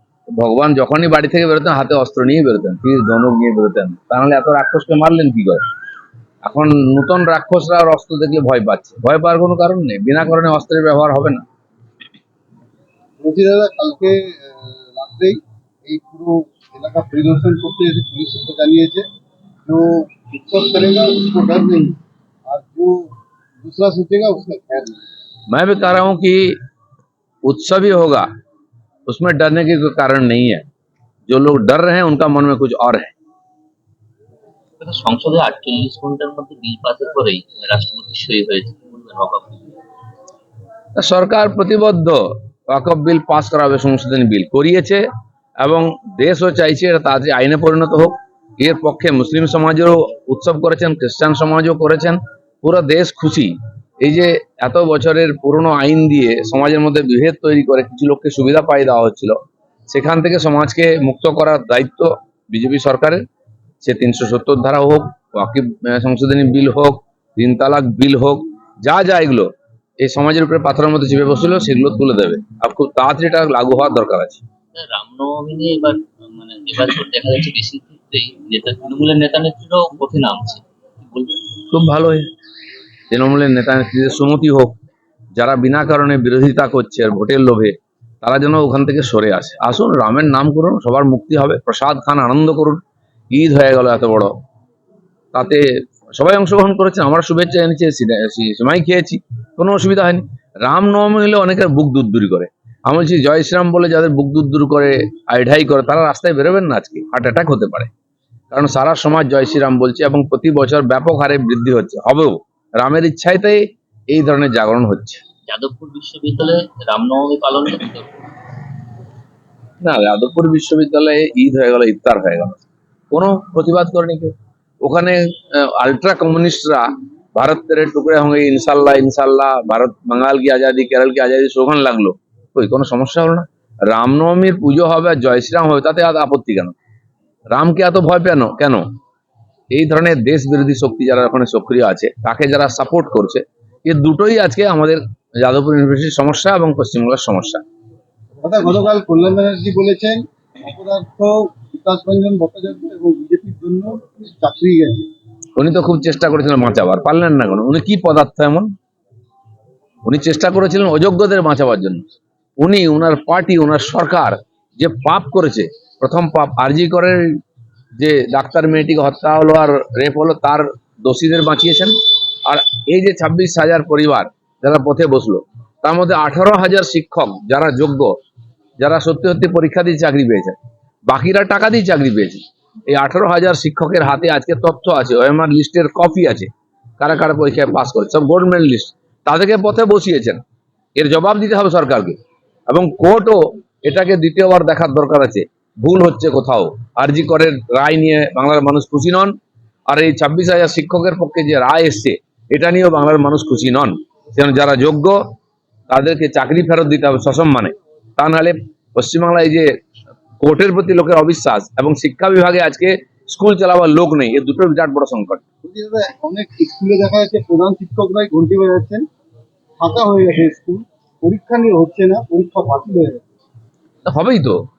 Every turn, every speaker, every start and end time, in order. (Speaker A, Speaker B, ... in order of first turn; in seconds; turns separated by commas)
Speaker A: 0.3-5.6, Speaker A: 6.4-11.4, Speaker B: 13.2-19.0, Speaker B: 19.6-21.9, Speaker B: 22.5-23.0, Speaker B: 23.6-25.0, Speaker A: 25.5-26.6, Speaker A: 27.4-28.3, Speaker A: 29.1-30.6, Speaker A: 31.3-33.1, Speaker C: 34.8-39.8, Speaker A: 41.0-45.0, Speaker A: 45.6-59.4, Speaker A: 59.9-63.2, Speaker A: 63.8-74.4, Speaker C: 74.7-81.4, Speaker A: 81.7-82.3, Speaker A: 83.1-84.7, Speaker A: 85.3-94.3, Speaker A: 95.3-107.9, Speaker A: 108.5-115.2, Speaker C: 115.5-118.3, Speaker A: 119.8-122.6, Speaker A: 123.1-136.7, Speaker A: 137.5-138.8, Speaker A: 139.7-147.6, Speaker B: 148.4-155.1, Speaker A: 155.6-158.7, Speaker A: 160.0-162.0, Speaker A: 162.6-167.4, Speaker A: 168.0-171.9, Speaker A: 172.4-178.2, Speaker A: 178.8-180.6, Speaker A: 181.1-190.4, Speaker A: 190.9-192.2, Speaker A: 192.7-199.3, Speaker A: 199.9-205.2, Speaker A: 205.9-209.7, Speaker A: 210.4-215.4, Speaker B: 215.6-219.0, Speaker B: 219.8-223.2, Speaker A: 224.1-224.6